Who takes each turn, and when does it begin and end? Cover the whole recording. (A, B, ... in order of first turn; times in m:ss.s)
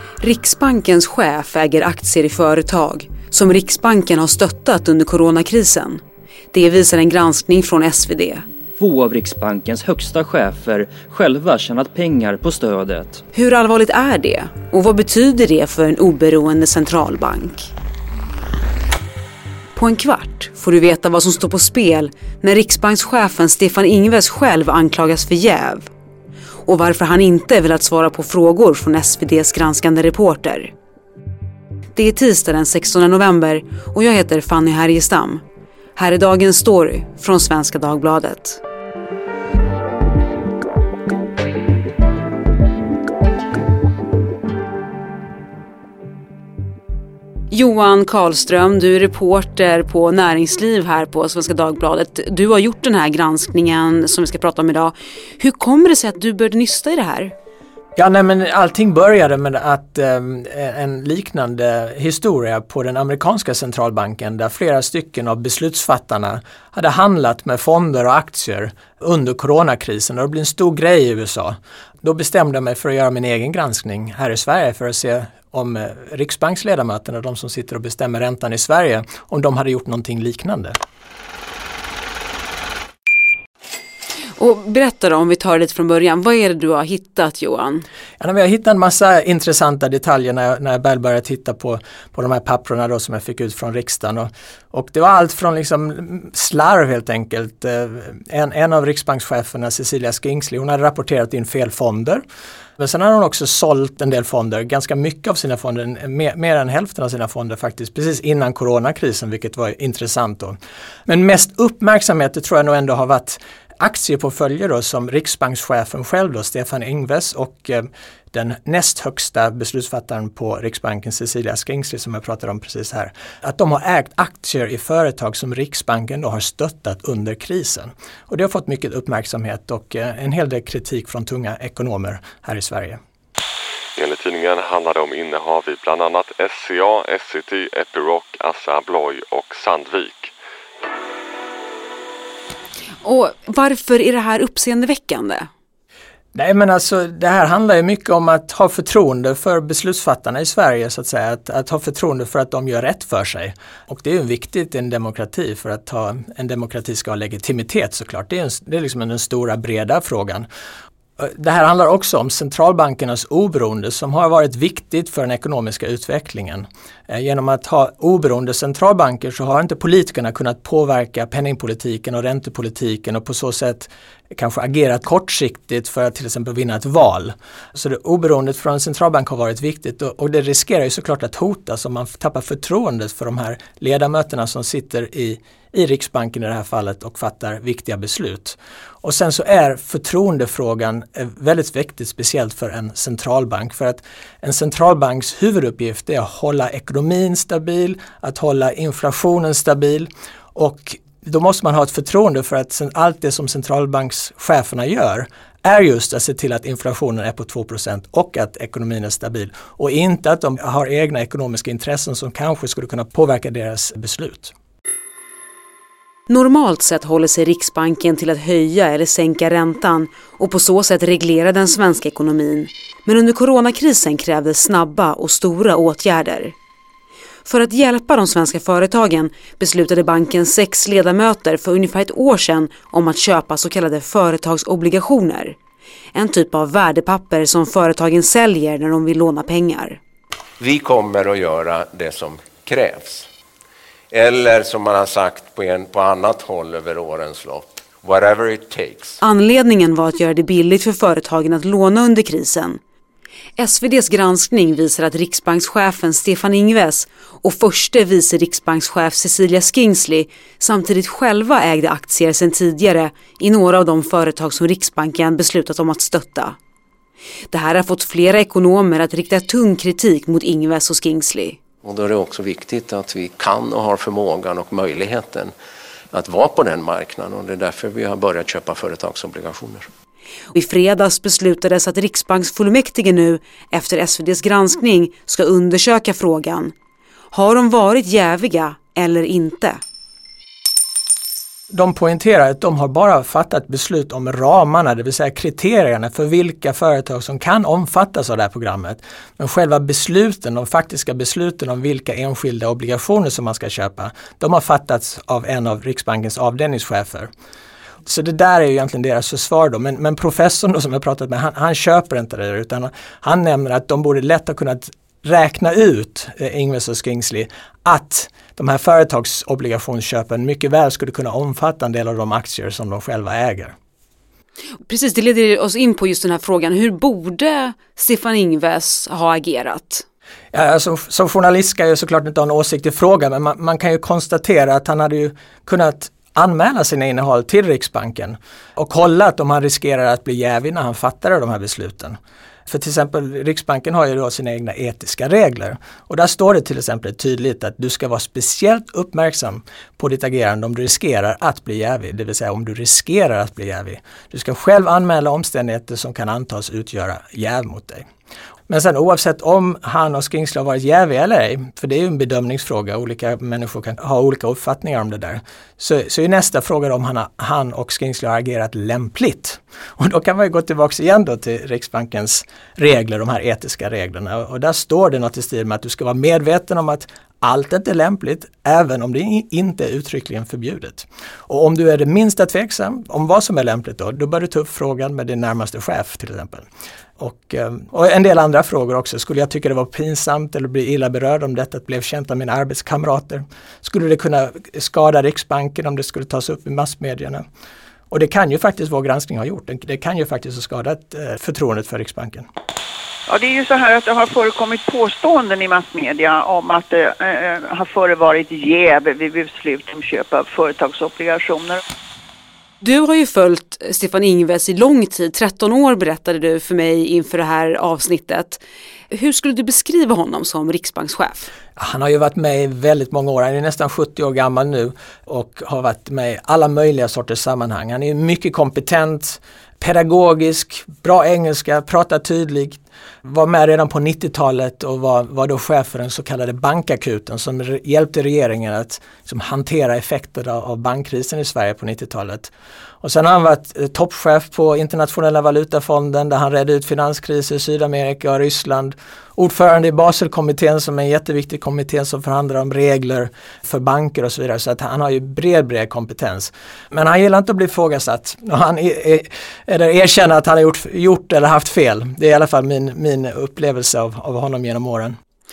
0:00.2-0:06.0 A
0:06.5-0:08.4 A
0:08.8-0:13.2 B
0:13.3-0:17.7 A
0:19.8-0:25.9 A
0:26.6-0:30.7 A
0:32.0-0:35.4 A
0:36.0-0:38.6 A
0:47.5-0:57.3 A
0:58.0-1:20.8 C
1:24.4-1:27.9 A
1:28.2-1:42.2 C
1:42.8-1:50.6 C
1:51.1-2:13.0 C
2:14.0-2:20.3 D
2:23.0-2:25.5 A
2:26.3-2:40.5 C
2:41.2-3:34.5 C
3:36.3-3:46.6 A
3:47.4-3:55.6 A
3:56.1-4:00.0 A
4:00.6-4:03.3 E
4:04.1-4:09.2 E
4:09.2-4:12.8 A
4:13.6-4:26.6 A
4:27.5-4:31.6 A
4:31.8-4:35.5 E
4:36.1-4:39.9 E
4:40.5-4:46.7 A
4:47.3-4:49.8 A
4:51.7-5:07.3 C
5:08.1-5:23.7 C
5:24.9-5:30.0 A
5:30.5-5:42.2 C
5:42.7-5:58.0 C
5:58.7-6:26.7 C
6:27.2-6:37.4 C
6:38.1-6:42.5 C
6:43.3-6:51.8 F
6:52.8-7:01.5 A
7:01.8-7:45.2 C